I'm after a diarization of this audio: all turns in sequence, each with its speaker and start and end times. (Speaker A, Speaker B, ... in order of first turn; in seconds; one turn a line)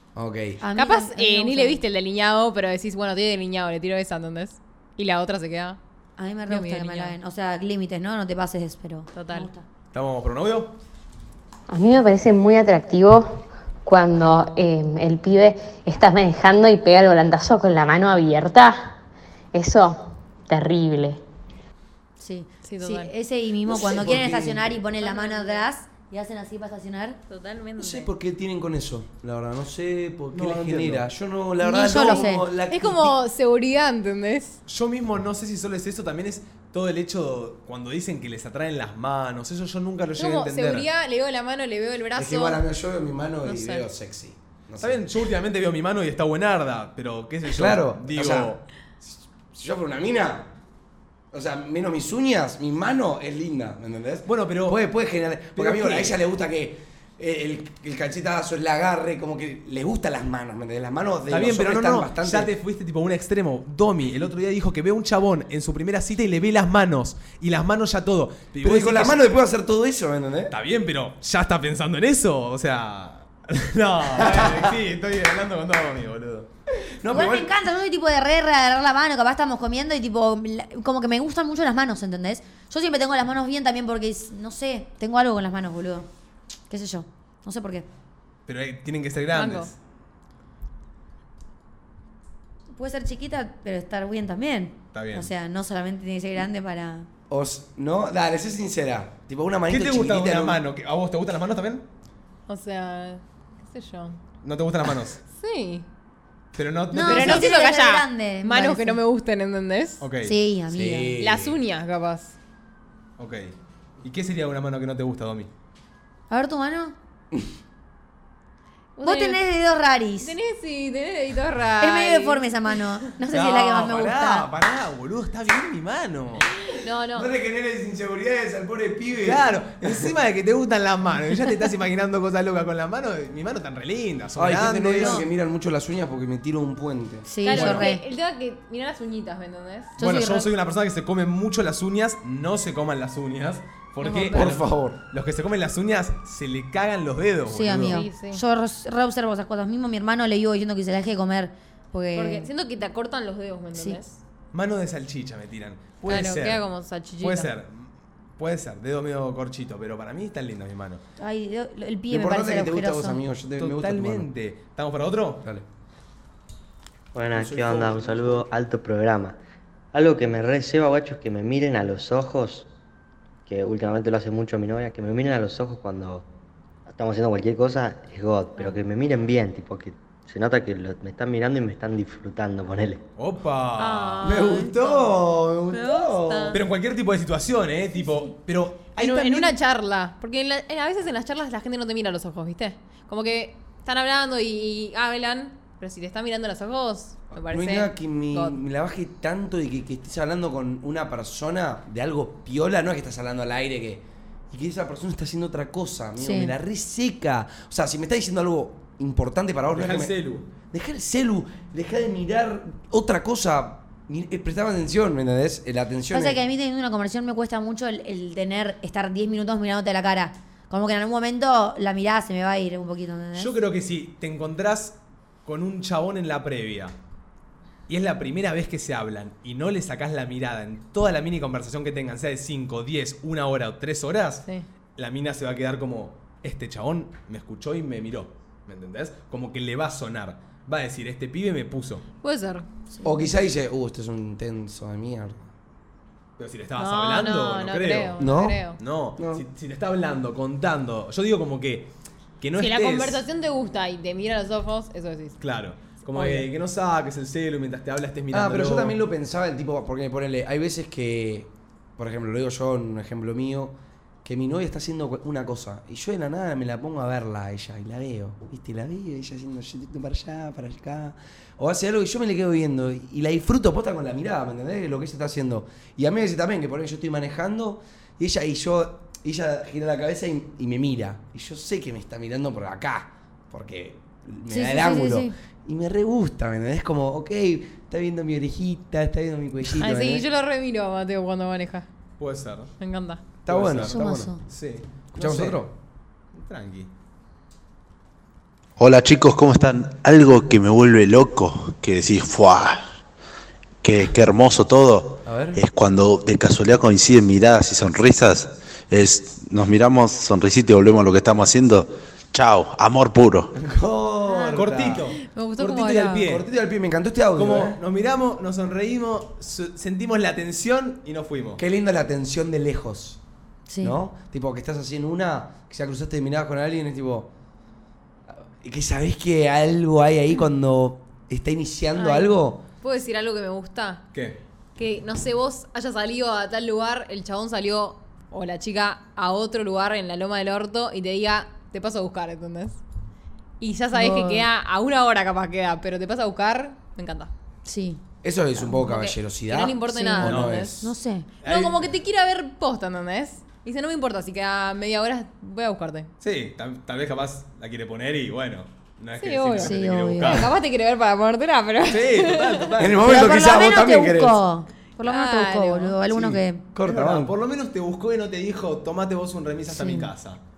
Speaker A: 0.1-0.6
Speaker B: 0.6-1.8
Speaker C: 0.7-5.8
Speaker B: 6.2-9.6
Speaker C: 6.5-7.1
Speaker C: 9.1-9.5
Speaker D: 9.9-10.8
Speaker E: 11.7-19.0
Speaker E: 19.5-21.2
Speaker B: 22.2-27.2
Speaker C: 22.6-23.1
Speaker A: 23.6-24.8
Speaker C: 24.9-25.6
Speaker C: 27.3-28.1
Speaker A: 27.8-33.2
Speaker D: 30.3-31.1
Speaker B: 31.6-32.5
Speaker C: 31.9-34.6
Speaker D: 34.7-40.9
Speaker C: 40.2-42.6
Speaker A: 42.1-45.1
Speaker C: 43.4-43.9
Speaker D: 44.8-48.6
Speaker A: 47.5-50.5
Speaker A: 51.3-62.5
Speaker D: 54.2-54.8
Speaker D: 55.5-56.2
Speaker D: 61.3-69.2
Speaker A: 68.6-70.5
Speaker D: 70.5-76.5
Speaker A: 74.2-74.7
Speaker A: 77.0-77.5
Speaker B: 77.1-86.1
Speaker B: 86.7-87.9
Speaker D: 88.5-89.7
Speaker C: 89.3-89.7
Speaker B: 92.7-97.1
Speaker D: 94.9-95.3
Speaker A: 97.3-100.6
Speaker D: 99.7-101.8
Speaker C: 102.5-104.2
Speaker D: 104.4-105.2
Speaker C: 105.3-105.8
Speaker D: 106.5-107.5
Speaker B: 106.9-109.0
Speaker C: 107.0-110.0
Speaker D: 110.0-110.3
Speaker B: 110.2-111.2
Speaker A: 110.7-111.5
Speaker C: 111.2-112.3
Speaker D: 113.2-115.5
Speaker B: 116.3-116.9
Speaker C: 119.0-119.4
Speaker B: 119.0-120.3
Speaker C: 120.2-122.8
Speaker B: 121.8-124.5
Speaker D: 123.3-126.5
Speaker C: 126.7-127.3
Speaker A: 127.1-130.1
Speaker D: 129.2-135.2
Speaker A: 134.3-137.3
Speaker B: 137.3-138.0
Speaker C: 137.4-139.9
Speaker D: 137.5-137.9
Speaker B: 140.0-140.5
Speaker D: 140.0-148.0
Speaker C: 144.0-144.6
Speaker A: 144.3-145.0
Speaker B: 147.5-152.5
Speaker C: 147.8-148.4
Speaker C: 152.1-154.2
Speaker D: 154.5-156.6
Speaker C: 156.1-157.5
Speaker D: 157.2-161.0
Speaker B: 161.2-163.2
Speaker A: 162.1-164.3
Speaker D: 163.6-165.4
Speaker F: 167.1-169.4
Speaker D: 167.3-168.4
Speaker F: 169.9-172.7
Speaker F: 173.4-176.2
Speaker F: 176.8-183.0
Speaker D: 183.2-184.4
Speaker C: 183.8-185.2
Speaker A: 184.2-186.6
Speaker C: 185.7-186.6
Speaker D: 186.5-189.5
Speaker C: 188.9-198.6
Speaker A: 197.3-216.4
Speaker B: 206.2-206.5
Speaker D: 209.7-210.4
Speaker B: 216.1-223.5
Speaker D: 223.3-226.9
Speaker D: 227.9-234.4
Speaker D: 235.0-242.0
Speaker C: 242.2-242.7
Speaker A: 243.0-245.5
Speaker D: 246.4-248.2
Speaker C: 246.8-248.8
Speaker A: 248.2-249.4
Speaker D: 248.8-253.2
Speaker C: 252.6-255.4
Speaker D: 255.4-259.0
Speaker C: 256.1-256.5
Speaker A: 258.3-290.2
Speaker B: 284.5-285.3
Speaker C: 289.8-291.9
Speaker D: 292.2-292.7
Speaker C: 292.8-293.2
Speaker A: 293.4-294.4
Speaker D: 293.5-293.9
Speaker B: 293.9-294.4
Speaker D: 294.5-295.6
Speaker A: 295.1-295.7
Speaker D: 296.3-296.9
Speaker G: 298.8-302.9
Speaker G: 303.8-313.5
Speaker A: 305.2-305.6
Speaker A: 313.6-315.2
Speaker D: 314.5-316.4
Speaker C: 315.2-316.3
Speaker A: 316.2-317.8
Speaker D: 317.4-321.6
Speaker A: 321.6-323.2
Speaker B: 323.7-324.0
Speaker A: 323.8-327.3
Speaker A: 328.6-332.6
Speaker C: 331.9-334.1
Speaker D: 334.1-334.4
Speaker C: 334.8-342.8
Speaker C: 343.6-347.3
Speaker B: 343.9-344.4
Speaker B: 347.6-348.0
Speaker A: 348.2-350.9
Speaker C: 348.8-350.8
Speaker B: 349.9-351.3
Speaker D: 350.2-350.6
Speaker D: 351.4-351.8
Speaker C: 351.4-356.1
Speaker D: 356.2-360.5
Speaker C: 359.2-362.7
Speaker B: 359.6-360.5
Speaker D: 361.9-363.3
Speaker A: 362.8-364.4
Speaker B: 363.0-366.6
Speaker C: 365.0-366.0
Speaker A: 366.1-367.4
Speaker D: 366.8-370.4
Speaker B: 369.7-370.1